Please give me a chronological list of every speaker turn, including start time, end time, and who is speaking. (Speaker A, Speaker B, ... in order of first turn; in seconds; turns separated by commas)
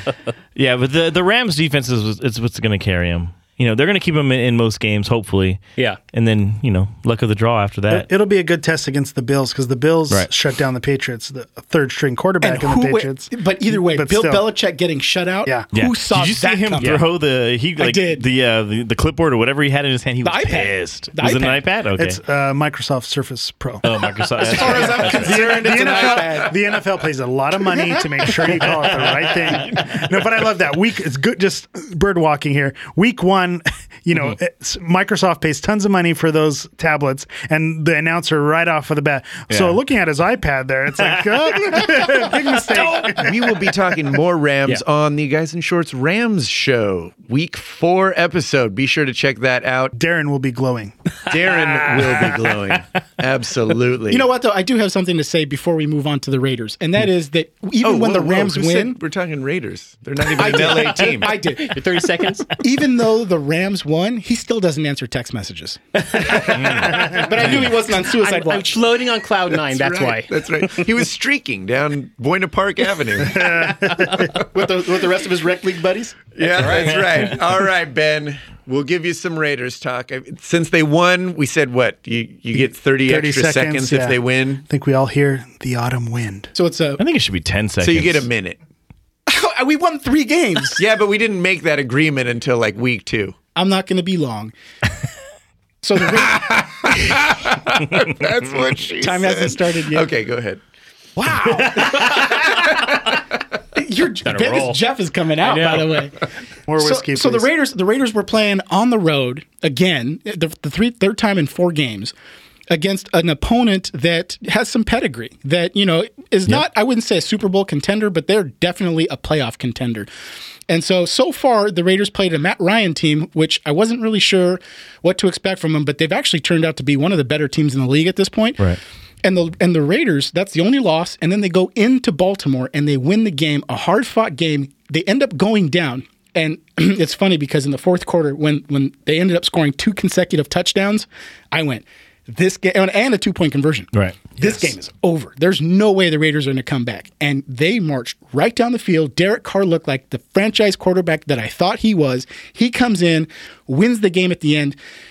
Speaker A: 0.5-5.6, Speaker A: 6.1-8.1, Speaker B: 7.9-14.4, Speaker C: 12.4-17.0, Speaker A: 15.7-22.2, Speaker C: 17.8-18.2, Speaker C: 20.2-21.6, Speaker B: 22.0-23.9, Speaker A: 23.8-25.5, Speaker C: 24.4-26.6, Speaker B: 24.4-43.3, Speaker D: 25.9-26.2, Speaker C: 27.7-28.6, Speaker A: 39.5-39.8, Speaker A: 42.0-42.9, Speaker D: 43.0-49.9, Speaker B: 49.9-51.2, Speaker D: 51.3-54.2, Speaker C: 54.1-59.0, Speaker D: 57.8-61.5, Speaker C: 60.4-61.7, Speaker E: 61.0-62.5, Speaker C: 62.5-68.9, Speaker E: 67.1-70.9, Speaker D: 69.6-73.6, Speaker B: 73.3-74.3, Speaker D: 74.1-74.4, Speaker C: 74.4-76.3, Speaker D: 76.3-84.6, Speaker B: 83.0-86.5, Speaker C: 86.5-87.0, Speaker A: 87.0-88.3, Speaker D: 87.8-88.6, Speaker C: 89.3-90.8, Speaker D: 90.8-93.4, Speaker C: 93.5-94.5, Speaker C: 95.8-96.6, Speaker D: 96.1-100.6, Speaker C: 99.0-100.1, Speaker C: 101.2-102.8, Speaker D: 102.5-103.0, Speaker C: 103.7-106.1, Speaker E: 104.2-104.8, Speaker E: 105.4-106.1, Speaker B: 106.7-107.5, Speaker C: 106.8-112.1, Speaker C: 112.7-120.1, Speaker C: 120.7-154.8, Speaker A: 143.9-144.3